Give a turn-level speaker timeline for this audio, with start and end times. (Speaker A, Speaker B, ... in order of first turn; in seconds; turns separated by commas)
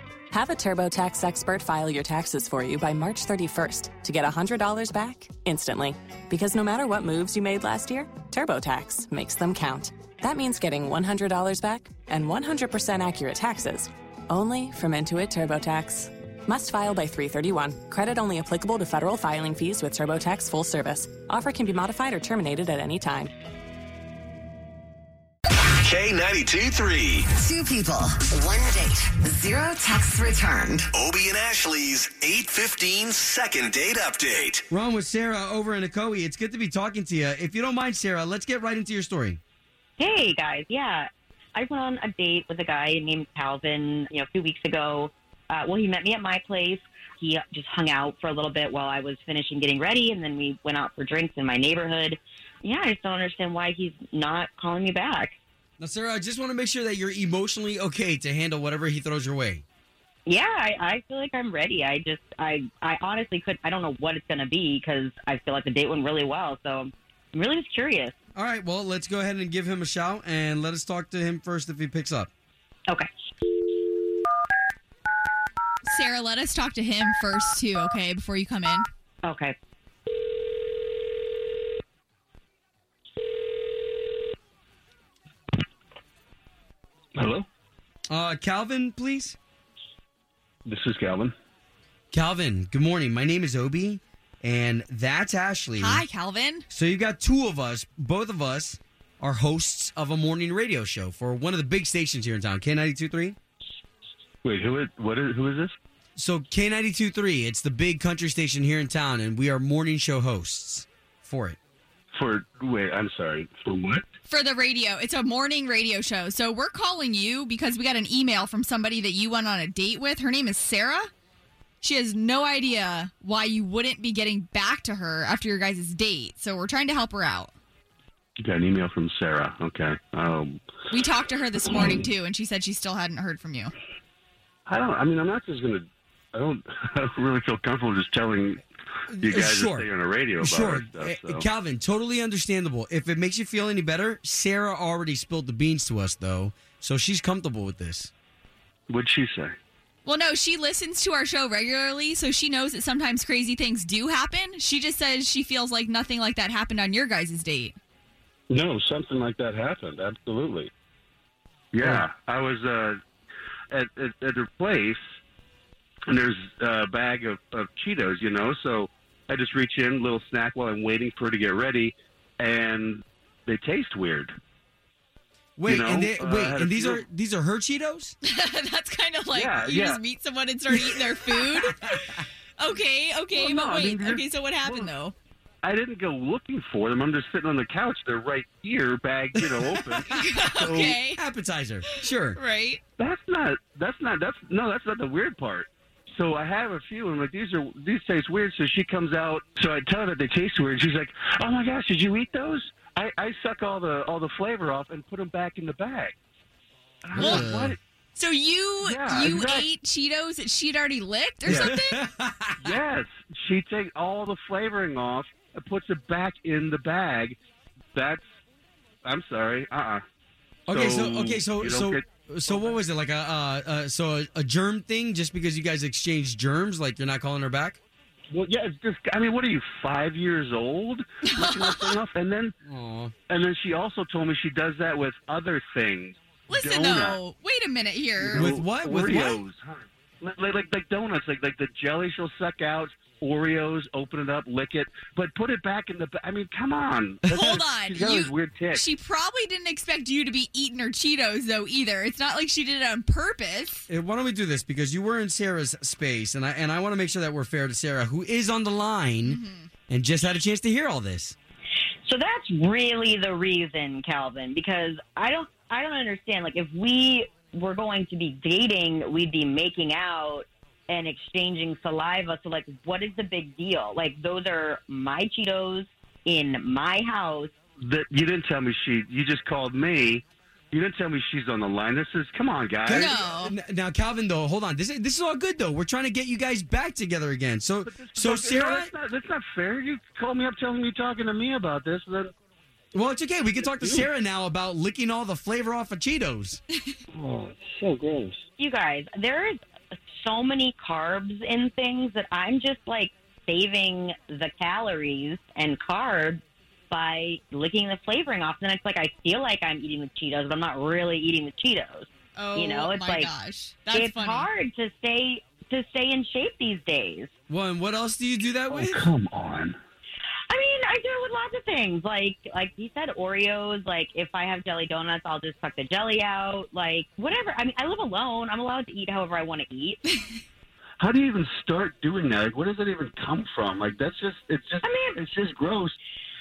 Speaker A: 0.3-23.3, Speaker B: 25.8-27.3, Speaker C: 27.3-30.9, Speaker B: 30.9-34.6, Speaker D: 34.7-39.4, Speaker E: 40.0-55.3, Speaker D: 55.8-59.6, Speaker E: 60.2-68.1, Speaker D: 68.3-72.3, Speaker F: 75.8-78.9, Speaker E: 79.2-79.5, Speaker G: 87.2-87.5, Speaker D: 88.1-89.3, Speaker G: 90.7-91.3, Speaker D: 92.1-96.0, Speaker F: 95.8-96.7, Speaker D: 96.7-103.3, Speaker G: 104.4-105.7, Speaker D: 106.2-111.6, Speaker G: 112.1-114.0, Speaker F: 114.3-121.1, Speaker F: 121.8-127.5, Speaker G: 128.4-130.6, Speaker F: 130.9-133.7, Speaker G: 134.7-138.6, Speaker D: 139.1-139.8, Speaker G: 139.2-141.4, Speaker D: 140.4-148.1, Speaker G: 148.9-149.6, Speaker F: 150.0-157.8, Speaker G: 158.5-160.7, Speaker G: 161.7-163.0, Speaker G: 163.7-165.0, Speaker G: 166.1-174.3, Speaker D: 175.6-178.1, Speaker G: 175.7-177.0, Speaker F: 178.2-185.1, Speaker G: 179.3-180.0, Speaker G: 183.3-184.9, Speaker G: 185.6-191.0, Speaker F: 190.1-191.2, Speaker D: 190.9-192.4, Speaker F: 192.0-192.8, Speaker G: 193.0-206.1, Speaker G: 207.0-207.8, Speaker D: 207.1-207.8, Speaker F: 207.1-207.5, Speaker F: 208.1-212.0, Speaker G: 208.8-209.7, Speaker D: 211.4-212.8, Speaker G: 211.4-211.7, Speaker G: 212.6-217.3, Speaker G: 217.9-218.2, Speaker G: 219.0-220.0, Speaker D: 220.7-227.8, Speaker G: 220.7-222.8, Speaker G: 228.3-232.5, Speaker F: 231.3-232.0, Speaker D: 232.6-233.1, Speaker G: 233.3-237.2, Speaker F: 236.5-238.5, Speaker G: 238.2-248.8, Speaker D: 238.3-239.4, Speaker F: 247.3-253.8, Speaker D: 253.9-261.3, Speaker F: 259.2-259.7, Speaker E: 262.0-277.5, Speaker G: 277.8-283.2, Speaker D: 282.9-288.9, Speaker F: 282.9-283.5, Speaker G: 287.8-292.3, Speaker D: 292.9-296.6, Speaker G: 293.6-294.1, Speaker G: 297.1-298.3, Speaker E: 298.6-299.6, Speaker E: 300.2-313.3, Speaker F: 312.4-314.5, Speaker E: 313.9-317.3, Speaker D: 317.5-319.1, Speaker G: 318.7-319.8, Speaker E: 320.5-330.0, Speaker G: 331.0-335.9, Speaker E: 334.8-335.2